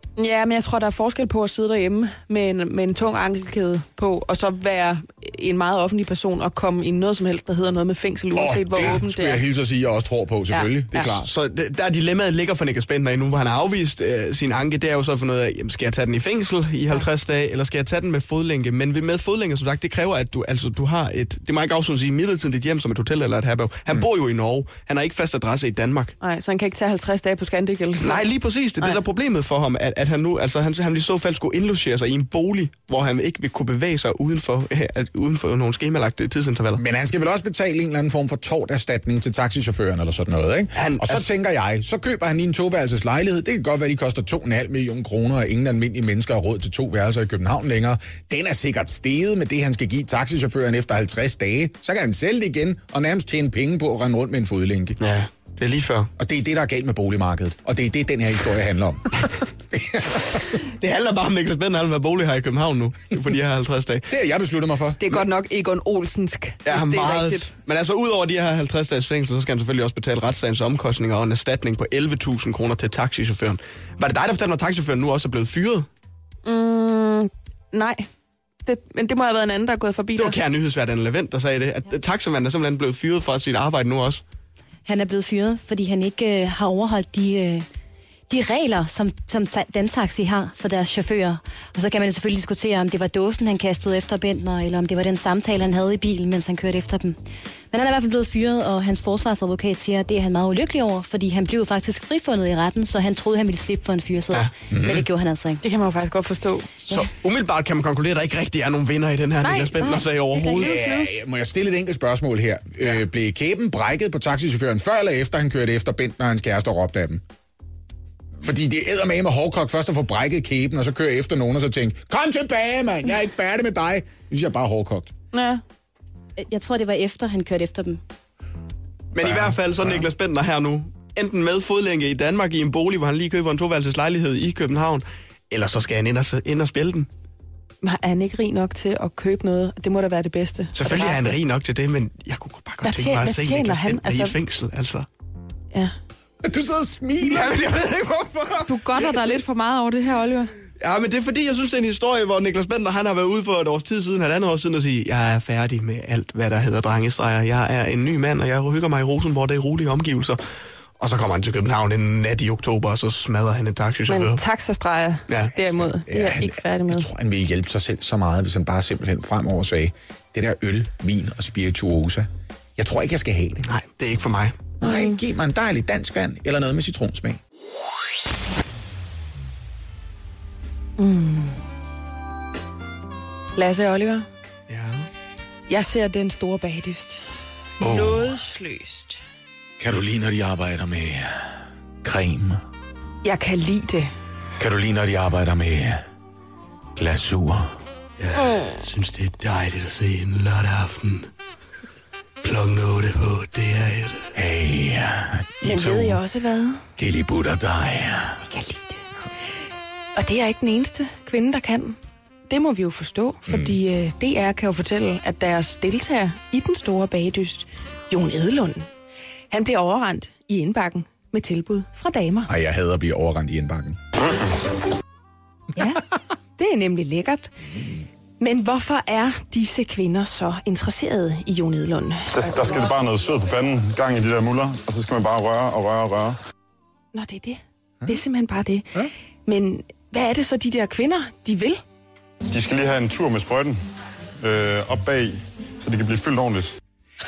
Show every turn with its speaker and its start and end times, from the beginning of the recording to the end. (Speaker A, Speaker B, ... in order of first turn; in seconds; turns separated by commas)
Speaker A: 0.2-9.4, Speaker B: 8.3-11.3, Speaker A: 10.5-11.2, Speaker C: 11.1-26.1, Speaker A: 26.2-28.2, Speaker C: 28.0-36.8, Speaker B: 36.8-55.0, Speaker C: 40.7-41.2, Speaker C: 55.0-56.1, Speaker B: 56.2-60.4, Speaker C: 60.6-64.1, Speaker B: 64.1-65.2, Speaker A: 65.0-67.5, Speaker C: 66.6-75.9, Speaker A: 76.4-78.1, Speaker A: 78.7-80.4, Speaker C: 80.2-84.2, Speaker D: 84.8-87.7, Speaker D: 88.3-97.2, Speaker D: 97.7-105.6, Speaker B: 104.7-105.0, Speaker A: 105.6-107.0, Speaker C: 106.9-110.8, Speaker A: 109.4-111.1, Speaker B: 110.6-117.2, Speaker B: 118.4-125.1, Speaker A: 125.3-125.6, Speaker D: 126.4-128.0, Speaker C: 129.1-137.1, Speaker B: 129.2-130.1, Speaker A: 137.8-141.3, Speaker C: 140.7-145.1, Speaker A: 142.8-144.3, Speaker B: 146.4-147.8, Speaker C: 147.2-148.8, Speaker A: 148.7-150.5, Speaker C: 150.8-160.4, Speaker C: 161.0-164.4, Speaker A: 164.1-167.1, Speaker C: 165.3-165.5, Speaker B: 166.1-173.7, Speaker C: 173.6-174.6, Speaker B: 174.8-177.4, Speaker A: 174.8-175.2, Speaker A: 181.0-181.6, Speaker A: 183.6-184.3, Speaker C: 184.7-185.1, Speaker A: 185.7-187.2, Speaker A: 187.8-189.2, Speaker B: 187.8-188.3, Speaker B: 189.8-192.6, Speaker A: 193.2-194.1, Speaker B: 194.6-196.0, Speaker B: 196.9-197.7, Speaker C: 198.2-201.3, Speaker C: 202.4-204.3, Speaker B: 204.3-206.2, Speaker A: 205.6-206.8, Speaker B: 207.0-208.4, Speaker A: 208.4-209.0, Speaker A: 210.1-212.0, Speaker A: 212.5-218.9, Speaker B: 213.5-213.8, Speaker A: 219.5-222.5, Speaker B: 222.5-224.0, Speaker A: 225.7-226.0, Speaker A: 226.6-227.5, Speaker A: 228.4-232.6, Speaker E: 232.3-236.4, Speaker A: 237.1-241.8, Speaker E: 242.5-243.8, Speaker E: 244.4-246.8